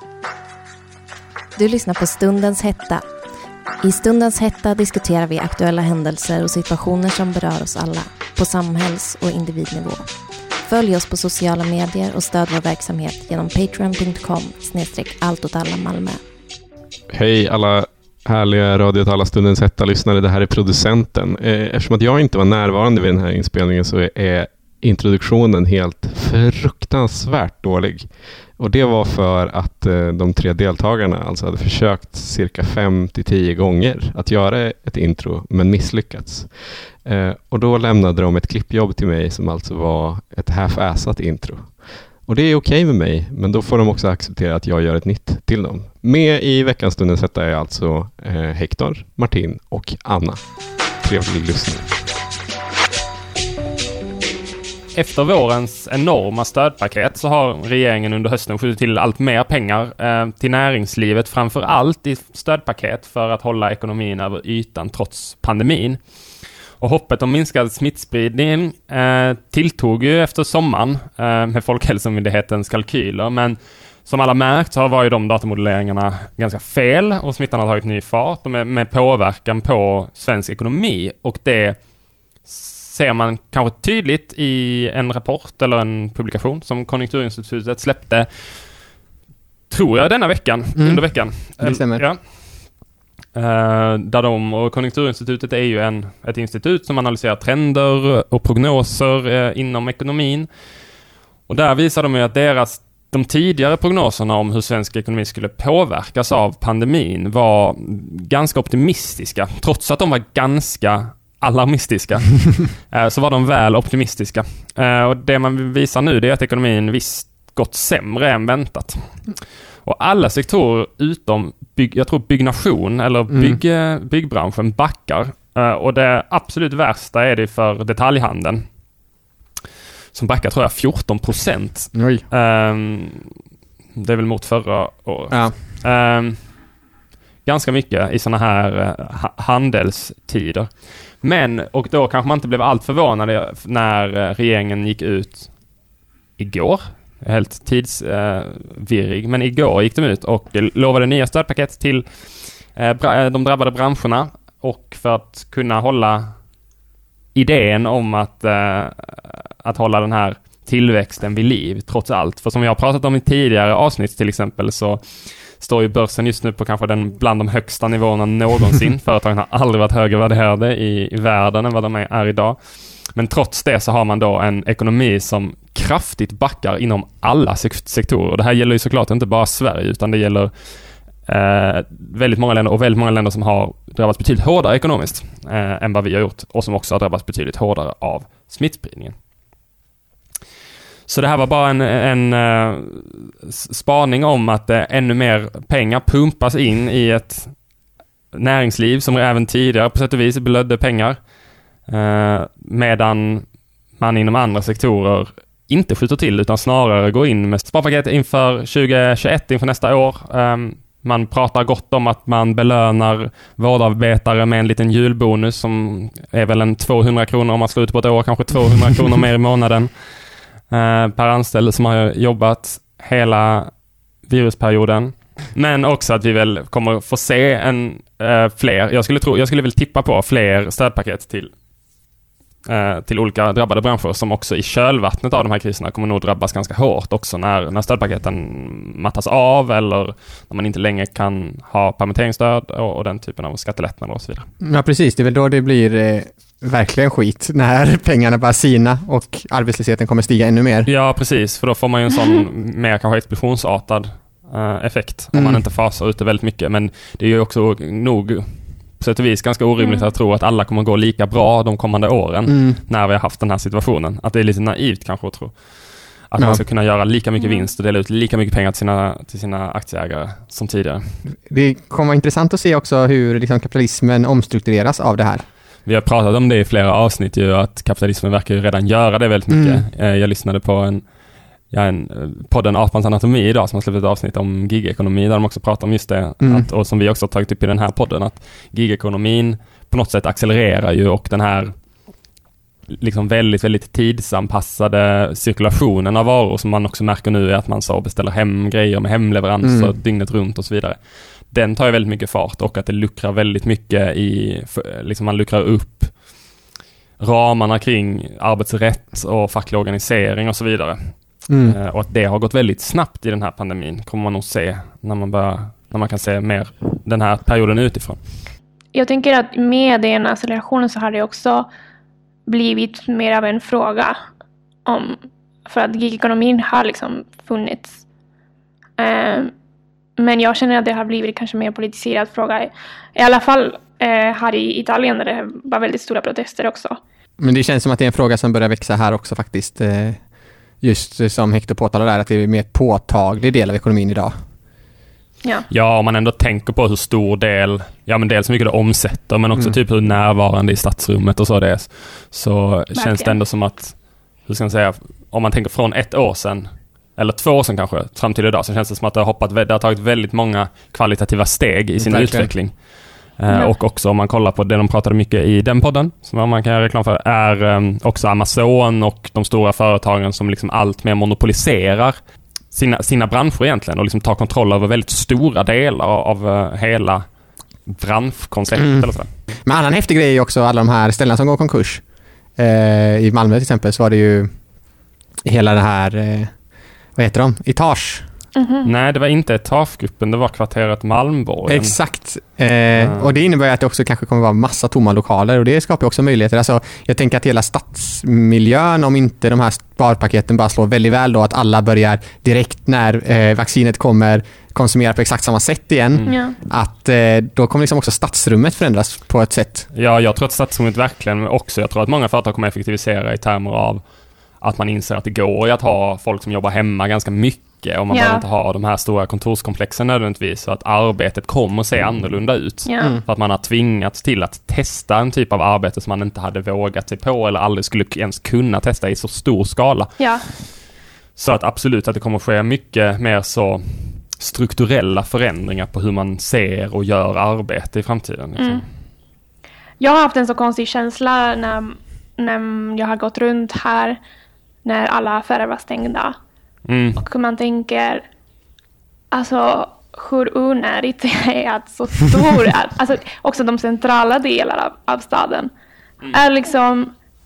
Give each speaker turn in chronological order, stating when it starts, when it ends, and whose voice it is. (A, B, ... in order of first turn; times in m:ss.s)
0:01.6-0:03.0 A
0:03.8-0:10.0 A
0:10.7-0:16.2 A
0:17.1-0:50.4 B
0:51.0-0:52.0 B
0:54.9-1:06.0 C
1:06.8-1:21.8 C
1:22.4-1:28.4 C
1:29.7-1:32.6 C
1:30.8-1:32.0 D
1:33.3-1:40.5 C
1:41.5-1:59.2 C
1:59.8-2:08.6 C
2:03.3-2:03.6 D
2:10.1-2:13.3 C
2:11.9-2:12.2 D
2:14.0-2:16.4 C
2:17.5-2:25.5 C
2:26.4-2:32.0 C
2:32.7-2:36.3 C
2:37.3-3:00.5 C
3:01.2-3:09.2 C
3:11.1-3:17.6 C
3:18.3-3:21.2 C
3:21.9-3:23.4 C
3:24.0-3:39.9 C
3:40.7-3:43.7 C
3:44.2-3:51.5 C
3:52.6-4:04.5 C
4:04.6-4:10.9 D
4:10.9-4:31.2 C
4:15.3-4:15.6 D
4:19.8-4:20.1 E
4:22.5-4:22.8 D
4:27.4-4:27.6 E
4:31.5-4:35.4 D
4:35.9-4:41.0 C
4:39.5-4:39.8 D
4:41.7-4:51.7 C
4:46.4-4:46.7 D
4:52.9-5:06.2 C
4:59.6-4:59.9 D
5:07.2-5:18.2 C
5:11.5-5:11.8 D
5:18.9-5:21.7 E
5:22.4-5:24.2 E
5:24.9-5:28.0 E
5:29.0-5:29.5 E
5:30.2-5:37.0 E
5:37.4-5:40.2 D
5:40.8-5:44.3 D
5:45.7-6:02.8 C
5:52.9-5:53.4 E
6:02.0-6:02.5 D
6:03.4-6:12.2 C
6:12.7-6:17.2 C
6:17.9-6:19.3 C
6:19.7-6:22.0 D
6:22.6-6:24.5 D
6:25.4-6:26.5 D
6:27.2-6:28.2 D
6:28.6-6:28.9 E
6:28.8-6:32.0 C
6:31.7-6:49.9 D
6:33.0-6:33.3 C
6:46.3-6:46.6 E
6:49.9-6:54.0 C
6:54.6-7:10.6 C
6:58.1-6:58.4 E
7:02.9-7:03.2 E
7:10.2-7:10.4 E
7:11.4-7:18.9 C
7:18.6-7:18.8 E
7:20.0-7:24.2 E
7:24.8-7:26.4 E
7:26.9-7:27.2 C
7:27.2-7:28.2 E
7:29.3-7:35.7 E
7:36.3-7:37.1 E